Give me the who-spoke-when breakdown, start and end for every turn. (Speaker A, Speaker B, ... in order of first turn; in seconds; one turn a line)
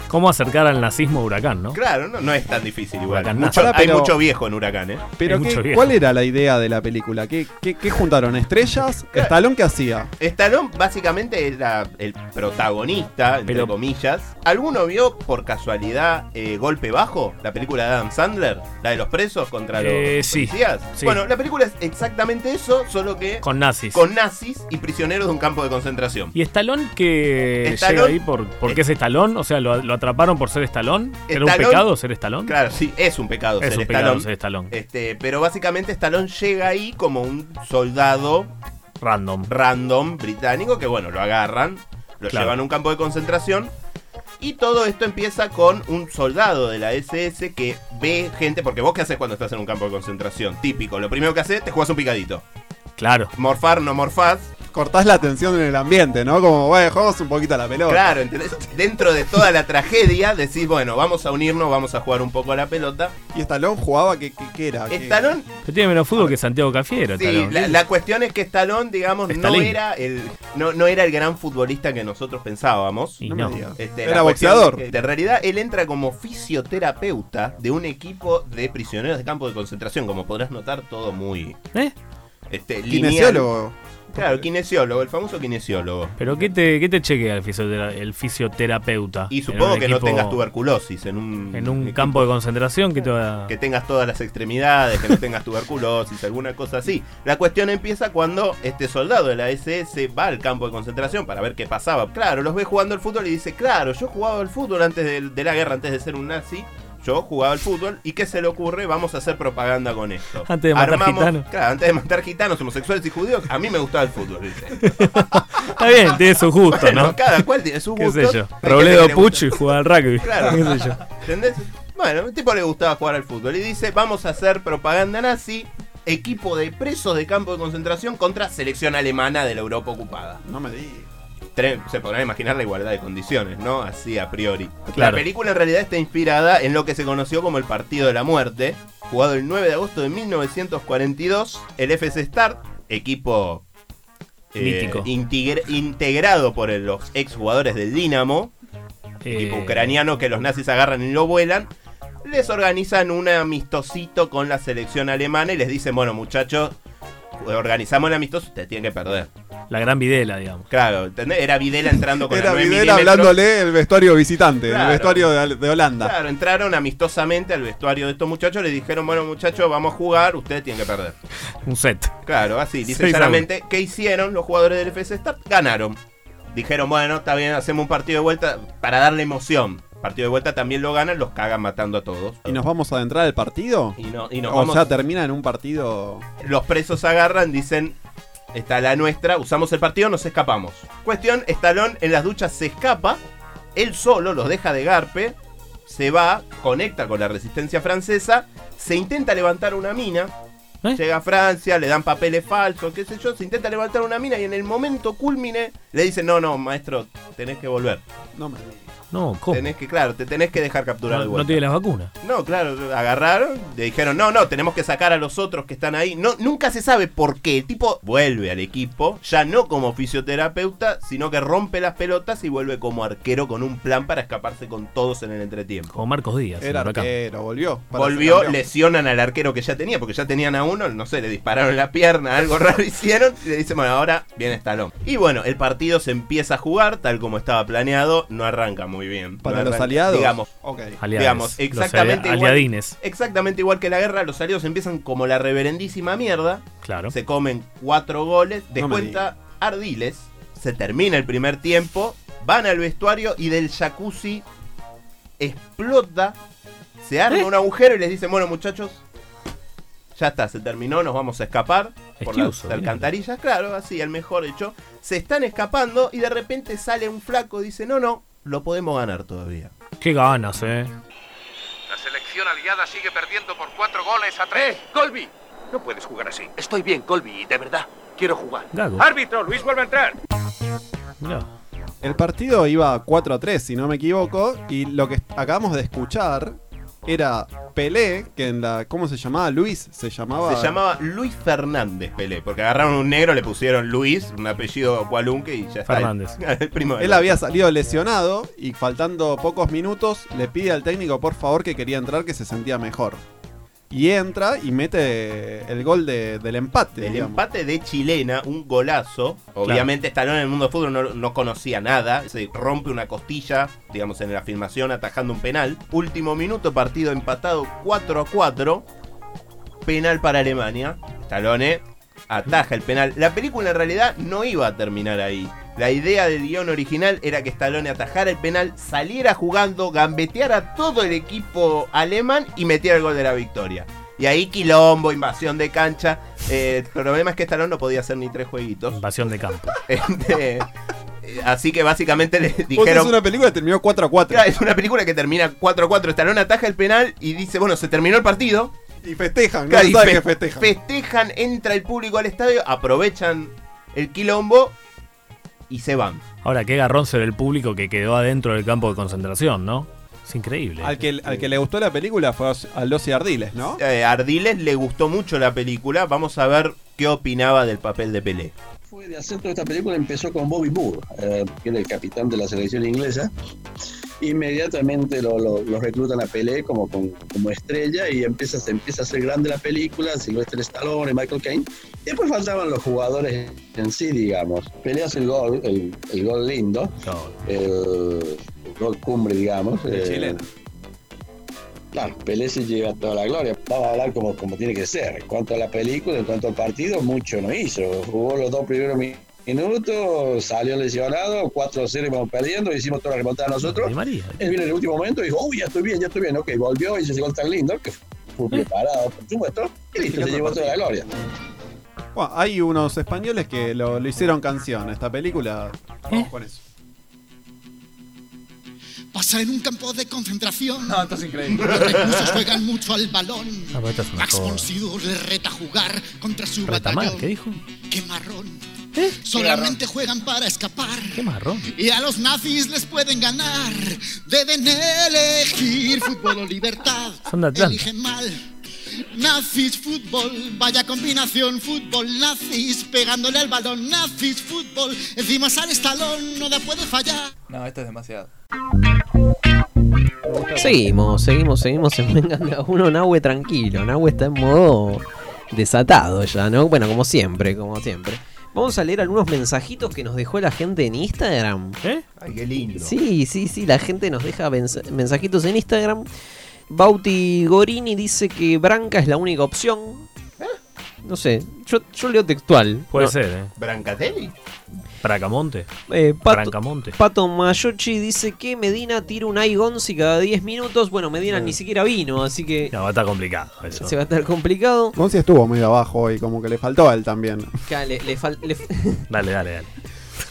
Speaker A: 0.1-1.8
Speaker B: 1.7-5.1
Speaker A: 3.1-3.8
Speaker C: 3.4-4.2
Speaker C: 5.2-10.1
Speaker A: 5.2-5.9
Speaker B: 10.2-26.3
Speaker A: 13.5-13.7
Speaker A: 19.8-21.2
Speaker A: 23.4-24.0
Speaker A: 26.3-32.6
Speaker B: 27.6-28.8
Speaker B: 31.3-31.9
Speaker B: 32.5-38.5
Speaker A: 33.6-34.7
Speaker A: 39.0-39.5
Speaker B: 39.5-43.7
Speaker A: 42.3-42.6
Speaker B: 44.4-52.5
Speaker A: 53.0-53.3
Speaker B: 53.4-54.5
Speaker C: 54.7-58.2
Speaker B: 57.9-63.1
Speaker C: 63.3-65.4
Speaker B: 64.9-65.5
Speaker A: 65.7-67.8
Speaker B: 67.2-73.2
Speaker A: 69.3-69.8
Speaker A: 73.2-73.6
Speaker C: 73.2-74.9
Speaker B: 73.8-81.6
Speaker B: 82.5-83.5
Speaker C: 82.9-84.2
Speaker B: 84.1-86.2
Speaker A: 86.2-90.4
Speaker B: 89.3-92.3
Speaker A: 91.5-93.5
Speaker B: 93.5-114.9
Speaker A: 110.5-111.5
Speaker A: 114.8-121.0
Speaker B: 116.7-119.6
Speaker B: 120.2-130.4
Speaker C: 130.4-131.1
Speaker B: 131.6-143.7
Speaker A: 134.9-135.2
Speaker B: 144.5-148.5
Speaker A: 144.6-145.1
Speaker A: 149.2-150.0
Speaker B: 149.3-151.7
Speaker B: 152.2-156.8
Speaker B: 157.4-159.3
Speaker A: 159.7-160.7
Speaker B: 160.7-163.3
Speaker C: 162.3-166.2
Speaker B: 164.7-165.3
Speaker B: 166.0-171.2
Speaker A: 171.7-172.2
Speaker B: 172.3-176.0
Speaker A: 172.9-173.4
Speaker B: 176.5-182.6
Speaker C: 182.5-186.3
Speaker B: 184.0-184.9
Speaker B: 186.4-188.0
Speaker B: 188.5-193.2
Speaker B: 193.8-200.3
Speaker B: 200.9-208.0
Speaker C: 208.3-208.9
Speaker A: 209.1-209.7
Speaker B: 209.5-211.6
Speaker A: 211.1-212.1
Speaker B: 212.2-226.0
Speaker A: 225.9-227.1
Speaker C: 226.6-228.6
Speaker B: 227.9-240.5
Speaker C: 239.4-241.0
Speaker A: 241.0-243.0
Speaker B: 241.1-254.5
Speaker A: 246.8-247.1
Speaker C: 248.8-249.2
Speaker B: 255.4-256.4
Speaker B: 257.0-259.0
Speaker B: 260.1-269.7
Speaker A: 262.2-263.1
Speaker A: 270.0-270.9
Speaker D: 271.9-280.2
Speaker A: 278.7-279.1
Speaker A: 281.2-281.5
Speaker C: 282.0-290.8
Speaker B: 290.4-297.4
Speaker A: 295.9-296.4
Speaker C: 297.0-303.2
Speaker C: 303.9-307.4
Speaker B: 307.0-318.9
Speaker B: 319.9-339.0
Speaker A: 338.9-339.8
Speaker B: 339.9-340.7
Speaker B: 341.2-343.1
Speaker C: 342.7-344.5
Speaker B: 344.3-348.7
Speaker C: 349.0-350.7
Speaker B: 349.7-354.8
Speaker B: 355.7-356.2
Speaker A: 356.4-361.0
Speaker C: 360.8-363.8
Speaker B: 363.8-368.5
Speaker E: 368.9-373.3
Speaker E: 374.2-386.9
Speaker A: 387.0-387.4
Speaker E: 387.5-390.4
Speaker C: 389.9-390.5
Speaker E: 391.9-411.1
Speaker A: 403.6-404.4
Speaker C: 412.1-416.6
Speaker F: 419.1-427.3
Speaker G: 420.9-422.0
Speaker B: 421.6-422.4
Speaker A: 423.7-424.7
Speaker A: 426.7-427.6
Speaker F: 427.9-428.6
Speaker F: 429.2-438.4
Speaker G: 429.4-429.8
Speaker A: 431.1-431.7
Speaker A: 437.3-437.9
Speaker F: 439.1-447.2
Speaker G: 447.5-448.3
Speaker C: 450.2-450.9
Speaker H: 450.6-461.8
Speaker B: 462.2-462.9
Speaker H: 462.8-466.1
Speaker H: 466.7-470.1
Speaker H: 471.0-473.1
Speaker A: 472.9-473.5
Speaker B: 473.6-474.3
Speaker A: 475.0-475.7
Speaker H: 475.9-482.7
Speaker A: 476.3-477.0
Speaker A: 482.7-483.9
Speaker H: 483.7-485.0
Speaker C: 484.9-487.5
Speaker H: 487.7-489.1
Speaker A: 489.1-489.7